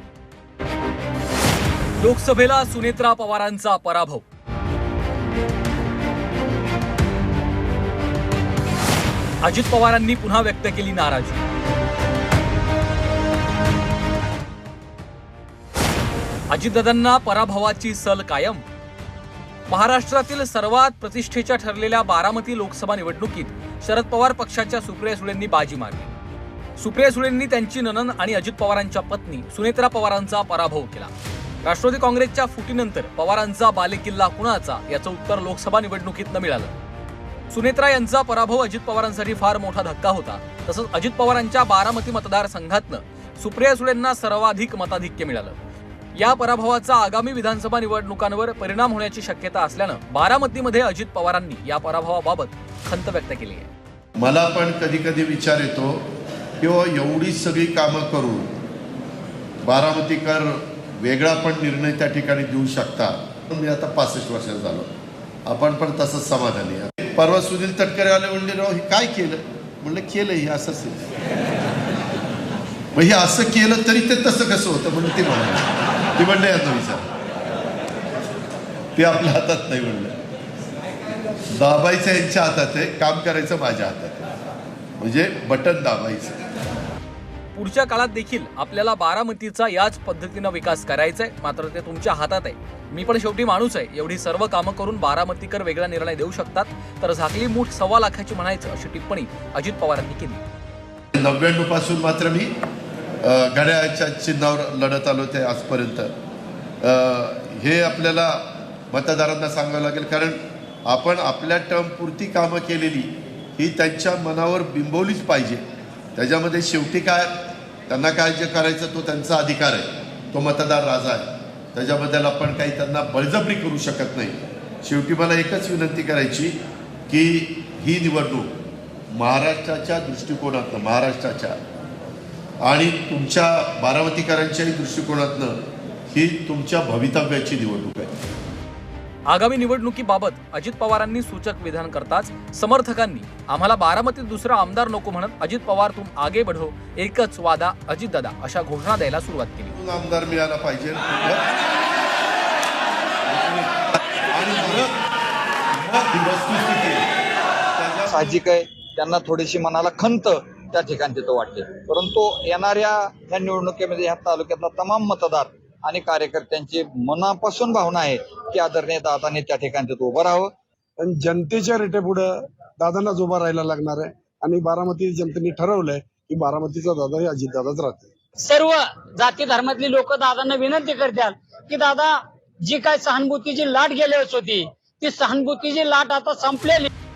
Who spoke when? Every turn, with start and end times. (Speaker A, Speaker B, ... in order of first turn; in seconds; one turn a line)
Speaker A: 2.0-4.2
Speaker A: 9.4-11.4
Speaker A: 16.5-18.6
Speaker A: 19.7-26.1
Speaker A: 26.8-31.1
Speaker A: 31.6-36.7
Speaker A: 37.5-45.6
Speaker A: 46.1-53.7
Speaker B: 54.2-56.1
Speaker B: 56.6-58.5
Speaker B: 59.6-64.9
Speaker B: 65.5-71.0
Speaker B: 73.0-77.1
Speaker B: 79.0-80.2
Speaker B: 81.6-84.3
Speaker B: 85.0-86.4
Speaker A: 87.5-100.4
Speaker B: 101.1-102.5
Speaker B: 103.2-106.1
Speaker B: 106.8-115.6
Speaker B: 116.2-117.3
Speaker B: 117.9-126.6
Speaker B: 127.1-128.5
Speaker B: 129.1-131.6
Speaker B: 132.6-135.6
Speaker B: 136.1-138.1
Speaker A: 139.3-149.8
Speaker B: 149.7-151.5
Speaker B: 153.3-153.7
Speaker B: 154.3-154.9
Speaker B: 155.8-157.1
Speaker B: 157.8-158.4
Speaker C: 158.1-170.5
Speaker D: 171.0-178.1
Speaker E: 178.4-186.9